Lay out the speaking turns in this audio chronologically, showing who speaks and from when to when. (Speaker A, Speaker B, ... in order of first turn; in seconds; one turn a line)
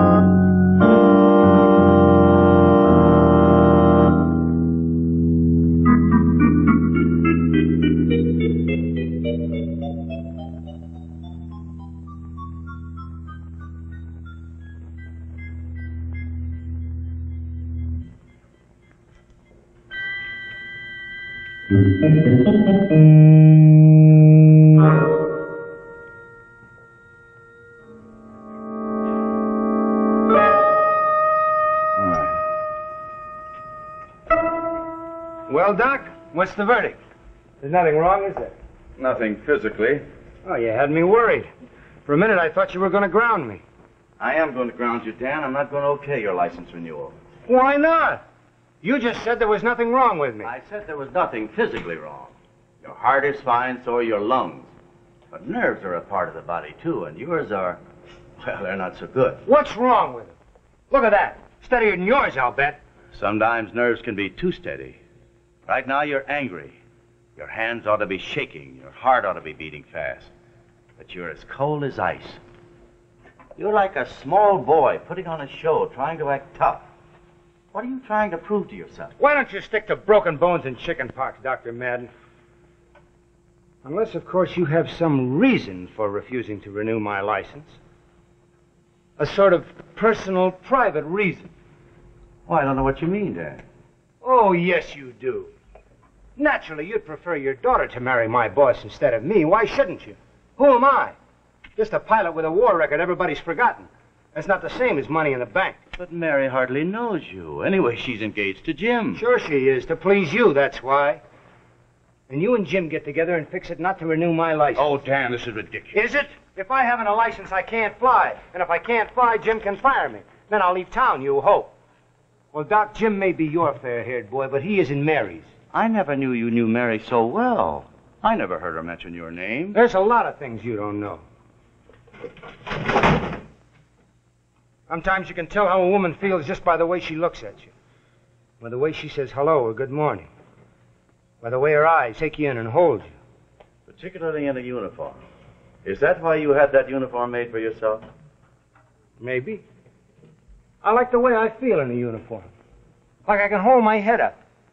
Speaker A: 32.0-32.3
Speaker B: 35.5-37.0
Speaker B: 37.6-38.5
Speaker A: 39.0-40.0
Speaker B: 40.5-41.5
Speaker B: 42.1-43.6
Speaker A: 44.2-47.1
Speaker B: 47.5-48.2
Speaker B: 48.8-50.5
Speaker A: 50.4-54.7
Speaker A: 55.3-57.8
Speaker A: 58.4-59.4
Speaker B: 59.5-60.4
Speaker B: 60.9-62.8
Speaker A: 63.1-65.0
Speaker A: 65.7-66.8
Speaker A: 67.4-70.3
Speaker A: 71.0-72.4
Speaker A: 73.6-76.9
Speaker A: 77.7-79.1
Speaker B: 79.2-82.1
Speaker B: 83.8-87.8
Speaker B: 89.2-91.5
Speaker A: 92.5-93.6
Speaker B: 94.2-95.5
Speaker B: 96.4-101.2
Speaker B: 101.8-105.8
Speaker A: 106.0-109.2
Speaker B: 109.2-111.2
Speaker B: 112.3-114.9
Speaker A: 114.8-116.0
Speaker B: 115.9-121.7
Speaker B: 122.5-125.5
Speaker A: 125.7-129.8
Speaker B: 129.7-131.2
Speaker B: 134.9-137.7
Speaker B: 138.6-140.3
Speaker B: 141.4-143.2
Speaker A: 143.9-145.2
Speaker A: 145.8-148.1
Speaker B: 149.2-149.6
Speaker B: 150.8-152.5
Speaker B: 153.3-154.4